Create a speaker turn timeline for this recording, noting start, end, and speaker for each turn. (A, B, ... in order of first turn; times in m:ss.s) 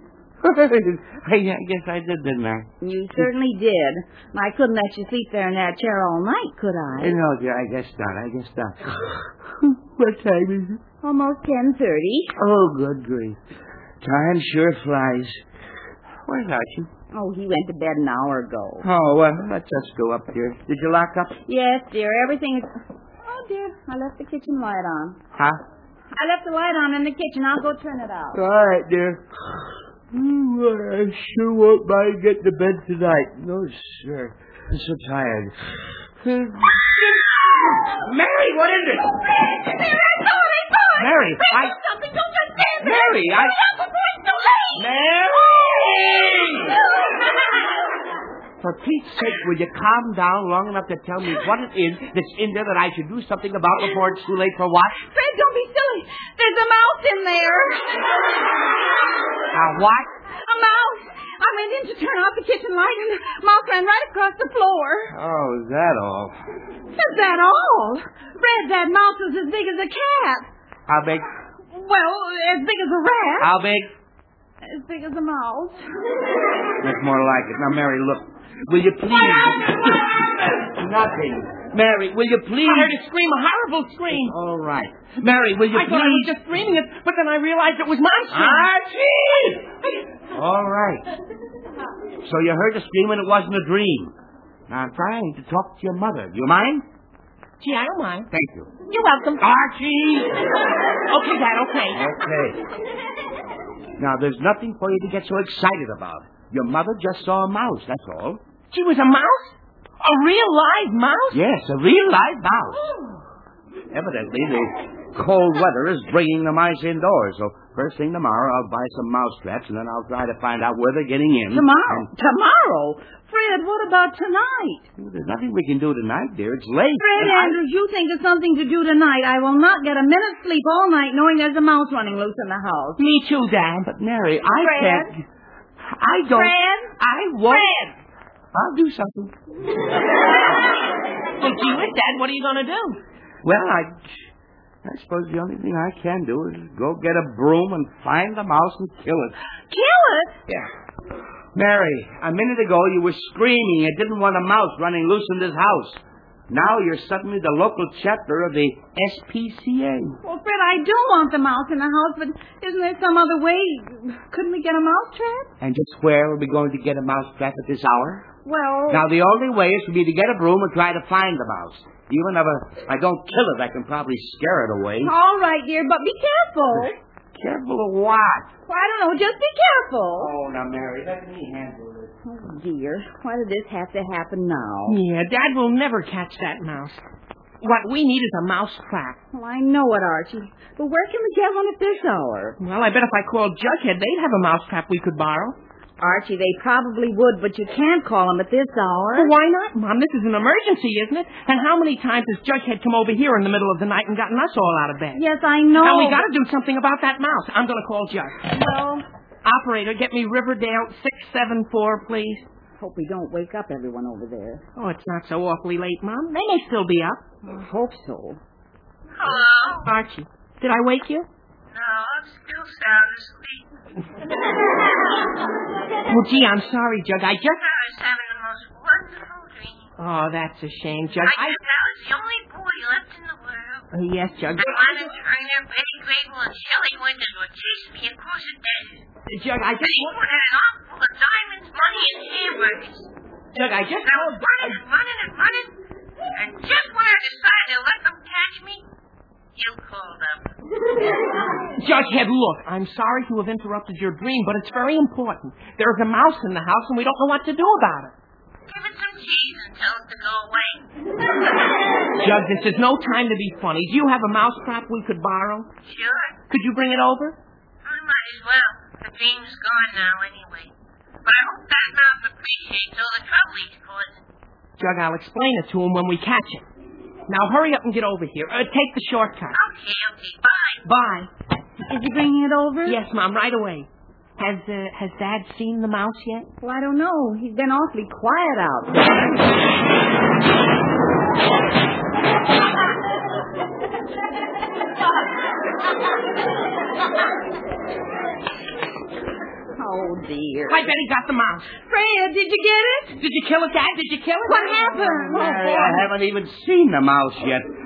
0:00.4-0:03.3 A
0:02.8-0:07.2 B
0:07.0-0:10.8 A
0:11.0-0:12.3 B
0:12.4-0:13.4 A
0:14.0-0:15.4 A
0:16.2-0:16.9 A
0:17.1-0:18.8 B
0:18.8-0:21.4 A
0:21.5-0:22.7 B
0:23.2-0:25.2 B
0:25.3-0:25.6 A
0:26.1-0:28.4 B
0:28.3-0:29.2 A
0:30.1-0:35.5 A
0:36.2-0:39.2 A
0:40.0-0:41.1 B
0:41.0-0:41.8 A
0:41.8-0:43.2 B
0:42.8-0:43.6 A
0:43.7-0:44.8 B
0:44.7-0:46.8 A
0:48.6-0:55.0 A
0:55.1-0:57.8 B
0:59.5-1:00.1 A
1:00.4-1:05.1 B
1:05.1-1:06.3 A
1:06.9-1:10.5 B
1:10.9-1:11.3 A
1:11.7-1:13.5 B
1:13.4-1:13.9 A
1:14.6-1:15.8 B
1:16.8-1:23.0 A
1:22.6-1:24.3 C
1:24.1-1:26.4 A
1:25.7-1:28.7 C
1:28.3-1:29.7 A
1:30.3-1:31.1 A
1:32.2-1:34.1 A
1:34.7-1:36.9 A
1:37.6-1:38.3 C
1:38.3-1:38.7 A
1:38.9-1:39.4 C
1:39.4-1:40.5 A
1:41.1-1:42.0 C
1:41.9-1:42.6 A
1:44.0-1:48.4 A
1:48.7-1:51.4 C
1:51.3-1:52.8 A
1:52.8-1:53.2 B
1:53.9-2:02.1 A
2:01.5-2:04.8 B
2:05.0-2:07.6 A
2:07.0-2:13.0 B
2:13.0-2:13.8 C
2:13.8-2:15.2 A
2:14.5-2:15.1 B
2:15.8-2:17.7 A
2:16.3-2:16.9 B
2:17.5-2:17.8 B
2:18.5-2:19.3 A
2:21.4-2:23.0 C
2:23.4-2:24.1 A
2:24.8-2:29.3 A
2:29.7-2:30.4 B
2:31.5-2:40.2 A
2:40.2-2:45.5 B
2:45.6-2:48.2 A
2:48.4-2:49.0 B
2:48.9-2:55.1 A
2:55.0-2:57.0 B
2:57.3-2:58.5 A
2:58.7-3:00.3 B
3:00.2-3:02.1 A
3:02.2-3:05.0 B
3:04.9-3:07.0 C
3:07.6-3:09.2 C
3:09.3-3:12.6 B
3:12.6-3:15.6 C
3:16.0-3:19.3 B
3:19.1-3:28.4 C
3:25.1-3:26.2 B
3:28.5-3:29.0 B
3:29.4-3:32.5 C
3:32.8-3:34.6 B
3:34.8-3:37.2 C
3:37.4-3:38.4 B
3:39.2-3:39.9 D
3:39.8-3:41.3 C
3:41.7-3:43.6 D
3:46.0-3:47.6 C
3:47.5-3:49.9 D
3:50.0-3:51.6 C
3:51.2-3:53.8 D
3:53.9-3:55.2 C
3:54.6-3:59.0 D
3:59.3-4:00.2 C
3:59.8-4:03.1 D
4:03.5-4:04.8 C
4:04.0-4:05.8 D
4:06.3-4:08.8 D
4:09.5-4:10.5 D
4:11.7-4:18.1 C
4:18.7-4:20.8 D
4:22.2-4:25.7 C
4:25.8-4:26.4 D
4:26.5-4:27.4 C
4:27.8-4:30.7 D
4:31.2-4:34.2 D
4:34.8-4:36.6 C
4:37.3-4:39.6 C
4:39.5-4:40.8 D
4:40.8-4:41.3 C
4:41.9-4:43.0 B
4:42.8-4:43.9 C
4:44.4-4:46.5 C
4:46.6-4:49.5 B
4:59.8-5:00.8 B
5:00.7-5:01.7 C
5:01.9-5:03.2 B
5:03.2-5:06.0 C
5:04.4-5:05.6 B
5:05.3-5:07.7 A